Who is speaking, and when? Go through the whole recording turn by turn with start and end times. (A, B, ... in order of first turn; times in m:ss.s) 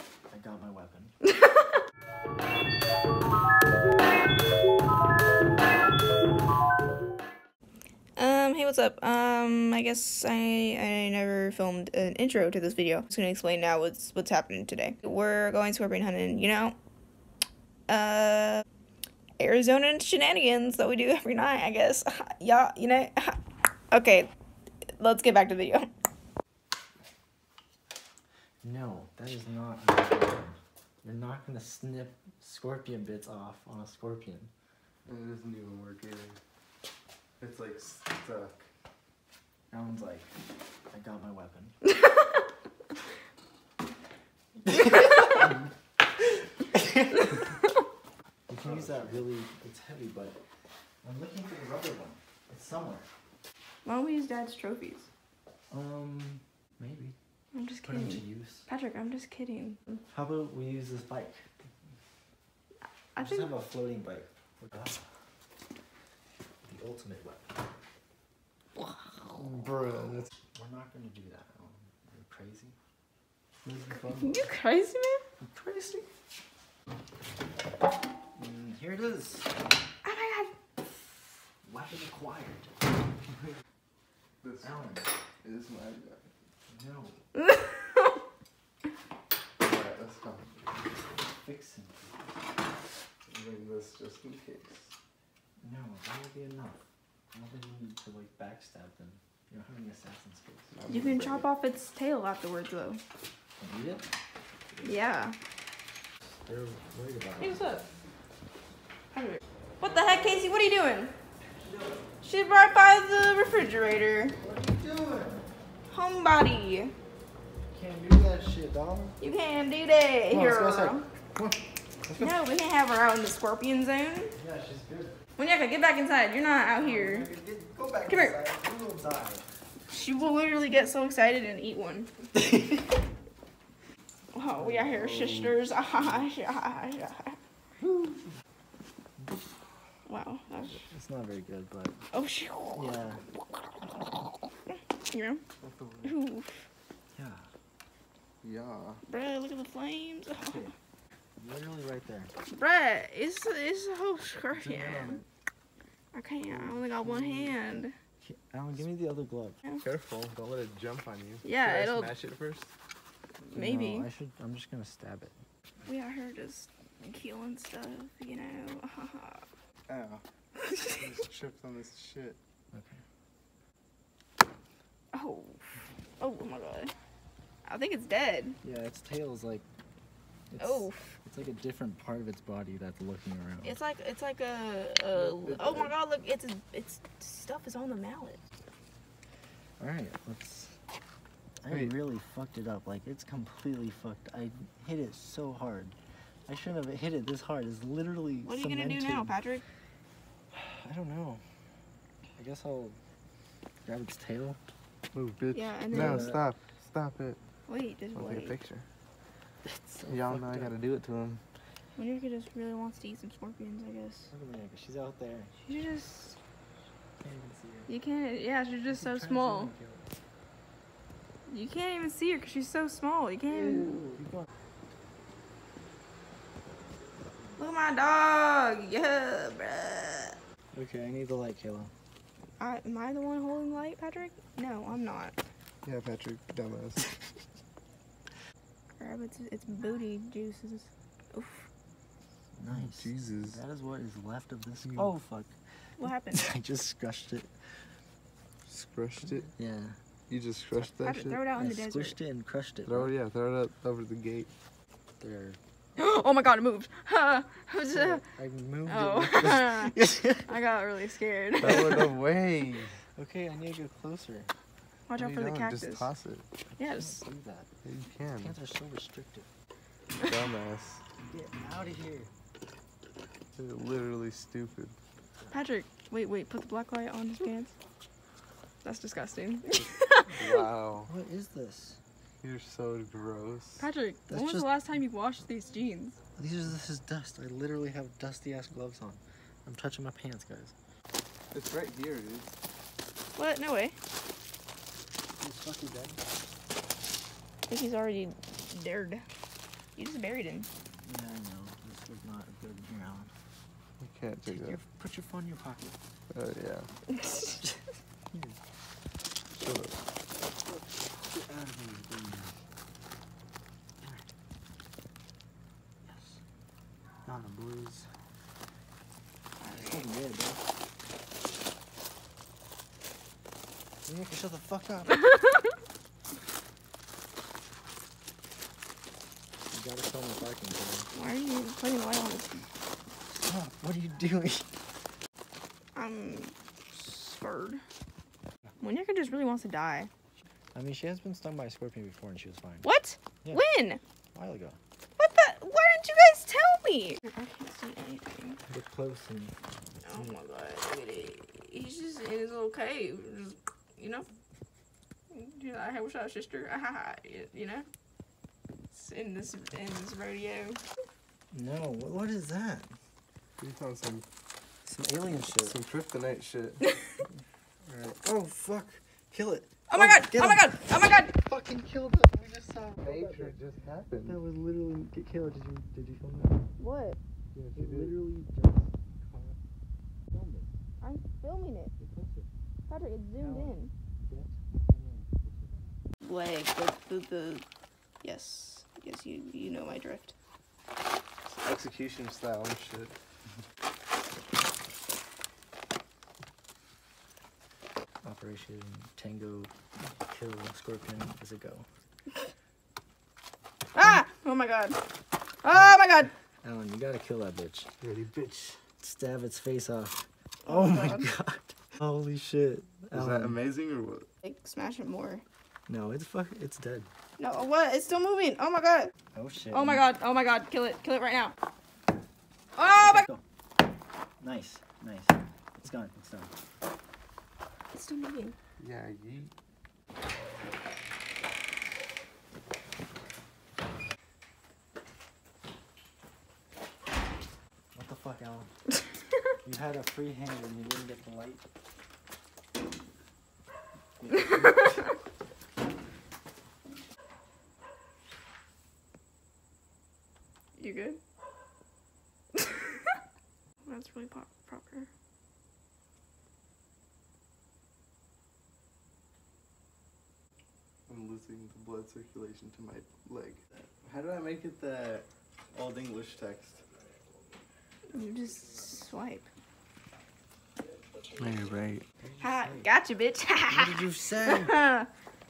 0:00.3-0:01.1 A
0:08.2-0:16.8 B
0:17.9-0:18.6 B
0:19.4-0:23.4 B
0:23.9-0:24.3 B
0:25.0-0:25.9 B
0:28.6-0:34.5 A
0:35.0-0:36.4 C
0:37.4-0:38.7 C
0:39.7-0:40.3 A
0:40.9-0:41.8 A
0:44.6-0:45.6 A
0:46.7-0:47.4 A
0:48.5-0:49.2 C
0:48.6-0:50.4 A
0:51.0-0:53.1 A
0:53.8-0:55.1 B
0:55.7-0:57.2 A
0:57.5-1:00.0 B
0:57.8-0:58.7 A
1:00.1-1:01.5 A
1:03.1-1:03.5 B
1:03.2-1:05.0 A
1:06.6-1:07.5 A
1:09.4-1:10.3 C
1:10.5-1:12.8 A
1:13.6-1:14.4 C
1:14.1-1:15.2 B
1:15.4-1:16.1 A
1:18.3-1:19.5 A
1:20.0-1:20.5 B
1:21.6-1:22.7 A
1:24.4-1:24.9 C
1:24.6-1:25.1 A
1:25.4-1:26.3 C
1:26.7-1:27.3 A
1:27.4-1:28.0 B
1:29.6-1:30.6 C
1:31.2-1:32.1 A
1:33.3-1:34.9 C
1:35.6-1:40.7 A
1:40.7-1:41.5 C
1:40.9-1:43.0 B
1:43.6-1:44.0 A
1:44.8-1:45.4 B
1:46.4-1:47.7 A
1:47.4-1:47.8 B
1:49.1-1:51.1 B
1:51.5-1:52.1 A
1:52.2-1:54.4 B
1:54.3-1:55.5 A
1:55.9-1:56.9 B
1:57.7-1:59.2 A
1:59.2-2:01.0 B
2:00.3-2:02.3 A
2:02.2-2:04.3 B
2:04.3-2:05.2 A
2:05.4-2:07.3 B
2:06.8-2:09.5 A
2:08.1-2:08.4 B
2:09.9-2:12.1 B
2:14.3-2:17.4 B
2:14.6-2:15.0 A
2:14.8-2:15.6 C
2:17.8-2:18.2 A
2:19.2-2:19.5 A
2:20.0-2:20.8 B
2:20.8-2:22.0 A
2:22.1-2:22.9 B
2:22.7-2:23.2 A
2:24.7-2:25.4 B
2:25.6-2:26.2 C
2:26.0-2:26.5 B
2:27.1-2:27.5 A
2:28.4-2:29.0 C
2:29.1-2:30.7 B
2:30.3-2:30.7 A
2:31.4-2:32.3 A
2:32.5-2:35.2 B
2:34.5-2:35.2 A
2:36.1-2:37.9 B
2:36.5-2:37.5 A
2:37.0-2:37.2 C
2:38.2-2:39.6 A
2:39.8-2:42.7 C
2:41.4-2:42.2 B
2:43.5-2:45.4 A
2:43.5-2:44.1 B
2:45.8-2:49.4 B
2:49.9-2:50.2 C
2:50.6-2:50.9 B
2:50.8-2:52.4 C
2:52.7-2:53.0 A
2:55.1-2:55.6 B
2:56.2-2:56.9 B
2:57.6-2:58.6 B
2:58.6-2:59.6 A
3:00.5-3:03.8 A
3:00.6-3:01.1 B
3:03.6-3:08.4 B
3:05.1-3:05.9 C
3:09.8-3:10.8 A
3:11.6-3:19.3 A
3:11.7-3:11.9 C
3:18.4-3:19.6 B
3:20.5-3:21.4 A
3:22.4-3:23.0 A
3:23.8-3:24.6 A
3:25.1-3:27.4 C
3:25.5-3:26.4 B
3:25.9-3:26.4 A
3:27.7-3:28.6 B
3:28.1-3:28.8 C
3:29.6-3:30.8 A
3:30.1-3:31.4 C
3:32.0-3:34.3 B
3:34.3-3:35.5 A
3:35.6-3:36.4 B
3:37.2-3:37.9 A
3:37.9-3:39.7 B
3:38.9-3:40.1 A
3:41.5-3:44.2 B
3:47.6-3:50.4 B
3:50.7-3:51.9 A
3:52.6-3:55.4 B
3:55.8-3:57.0 C
3:59.0-4:01.7 B
4:02.6-4:05.6 A
4:02.7-4:03.6 C
4:04.8-4:05.1 C
4:06.0-4:06.5 B
4:06.3-4:07.5 A
4:08.7-4:09.5 C
4:09.4-4:10.0 A
4:10.3-4:11.4 C
4:10.9-4:12.2 B
4:11.5-4:13.1 A
4:12.8-4:14.5 C
4:15.2-4:15.6 A
4:16.0-4:18.2 B
4:17.8-4:20.5 A
4:18.8-4:22.1 B
4:21.6-4:23.0 C
4:23.2-4:24.5 A
4:25.1-4:26.1 B
4:25.1-4:26.5 C
4:26.7-4:27.7 A
4:26.8-4:27.2 B
4:27.8-4:28.6 C
4:28.4-4:29.5 A
4:30.2-4:31.0 C
4:31.3-4:32.3 A
4:33.5-4:35.0 C
4:35.5-4:37.7 B
4:38.8-4:40.6 B
4:40.3-4:41.1 C
4:41.0-4:42.0 A
4:42.4-4:43.8 C
4:43.8-4:46.2 B
4:44.3-4:44.7 A
4:46.4-4:50.7 A
4:51.5-4:52.5 C
4:53.3-4:54.0 B
4:55.4-4:56.2 A
4:57.7-4:59.2 B
5:00.0-5:00.7 B
5:01.0-5:03.3 A
5:04.0-5:04.8 C
5:04.4-5:06.0 A
5:06.3-5:06.9 C
5:07.1-5:07.6 B
5:08.3-5:08.6 A
5:09.5-5:10.0 C
5:10.7-5:12.5 A
5:14.0-5:14.2 A
5:16.0-5:16.4 A
5:17.2-5:18.1 A
5:19.6-5:20.0 B
5:19.7-5:20.6 A
5:24.0-5:25.2 A
5:25.1-5:25.5 B
5:29.7-5:31.1 A
5:31.1-5:32.6 B
5:33.4-5:34.6 A
5:35.9-5:37.8 B
5:38.8-5:40.1 B
5:40.7-5:42.9 A
5:42.8-5:44.0 B
5:44.3-5:44.8 A
5:45.2-5:48.6 B
5:48.6-5:49.6 A
5:50.0-5:54.3 B
5:50.1-5:50.4 A
5:55.3-5:57.9 B
5:58.9-6:00.8 B
6:01.5-6:03.0 A
6:03.6-6:04.3 C
6:04.8-6:05.8 A
6:05.5-6:06.9 C
6:07.8-6:13.6 A
6:09.9-6:11.3 B
6:13.0-6:14.4 C
6:14.1-6:16.6 A
6:16.8-6:17.2 B
6:17.5-6:18.2 C
6:17.7-6:19.6 A
6:20.3-6:20.7 A
6:21.0-6:21.9 B
6:22.0-6:22.5 A
6:22.9-6:23.9 B
6:23.4-6:26.0 A
6:26.2-6:27.6 B
6:28.2-6:30.3 B
6:31.4-6:33.1 C
6:38.2-6:41.9 A
6:43.9-6:45.0 B
6:45.6-6:46.3 B
6:45.7-6:46.0 A
6:46.6-6:47.9 A
6:48.0-6:48.8 C
6:49.0-6:53.6 A
6:50.6-6:51.2 B
6:53.1-6:54.3 C
6:54.4-6:55.4 B
6:55.9-6:57.1 A
6:57.4-6:59.1 B
6:59.3-7:00.1 A
6:59.7-7:01.5 B
7:02.8-7:03.2 B
7:02.9-7:03.4 A
7:04.4-7:06.5 A
7:07.9-7:08.5 B
7:08.8-7:09.5 C
7:17.9-7:18.7 A
7:19.6-7:21.6 A
7:24.2-7:25.0 A
7:30.8-7:31.2 B
7:33.8-7:35.1 B
7:41.1-7:46.8 C
7:48.1-7:49.5 B
7:51.4-7:52.0 C
7:52.2-7:52.9 A
7:52.4-7:55.1 B
7:53.7-7:54.8 A